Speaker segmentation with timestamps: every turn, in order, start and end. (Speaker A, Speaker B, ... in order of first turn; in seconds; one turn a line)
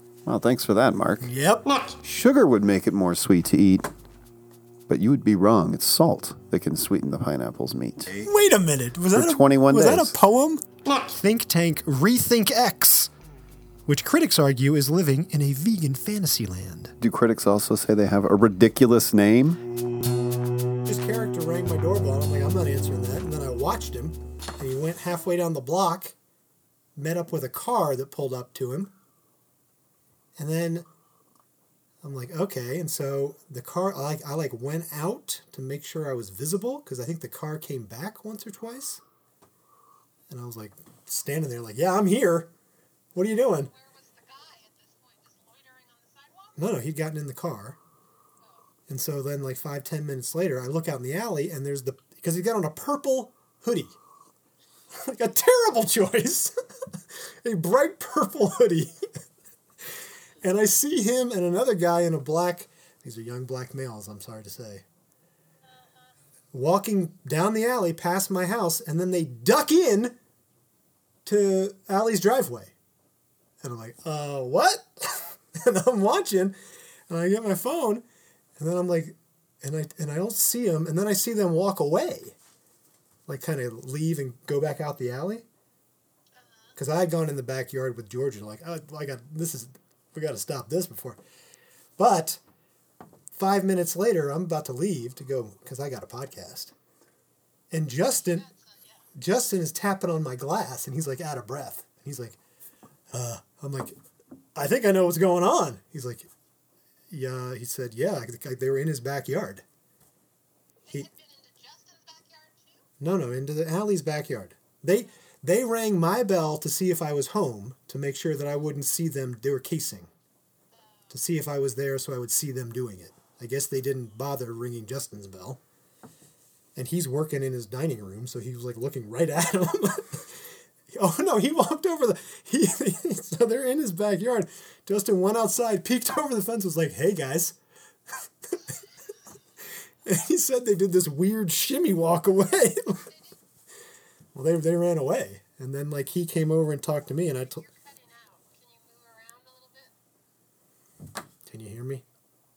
Speaker A: 0.2-1.3
Speaker B: 1.2-1.8
Speaker A: 2.0-3.9
Speaker A: 4.9-8.3
Speaker B: 8.2-13.1
Speaker A: 9.1-10.2
Speaker B: 13.9-16.9
Speaker A: 17.0-19.6
Speaker B: 20.9-26.1
Speaker B: 27.0-28.9
Speaker B: 30.4-30.9
Speaker B: 32.0-39.0
Speaker B: 40.3-42.5
Speaker B: 43.1-43.7
Speaker C: 43.6-46.6
Speaker B: 46.6-47.8
Speaker B: 48.9-53.9
Speaker B: 55.0-56.5
Speaker B: 57.4-59.0
Speaker B: 60.4-64.8
Speaker C: 65.7-66.1
Speaker B: 66.5-70.2
Speaker B: 71.3-72.7
Speaker B: 73.6-76.6
Speaker B: 77.1-78.0
Speaker B: 78.6-82.3
Speaker B: 83.3-85.4
Speaker C: 86.4-86.8
Speaker B: 86.8-91.2
Speaker B: 92.0-92.4
Speaker B: 93.3-96.7
Speaker B: 97.7-98.5
Speaker C: 98.2-99.1
Speaker B: 99.2-102.4
Speaker B: 103.1-104.0
Speaker B: 104.6-106.3
Speaker B: 107.1-109.6
Speaker C: 110.8-112.9
Speaker B: 113.0-120.1
Speaker C: 120.7-121.1
Speaker B: 121.1-125.6
Speaker B: 126.8-130.4
Speaker B: 130.9-137.6
Speaker B: 140.1-143.1
Speaker C: 142.9-143.3
Speaker B: 144.3-147.6
Speaker C: 147.2-149.9
Speaker B: 151.5-152.0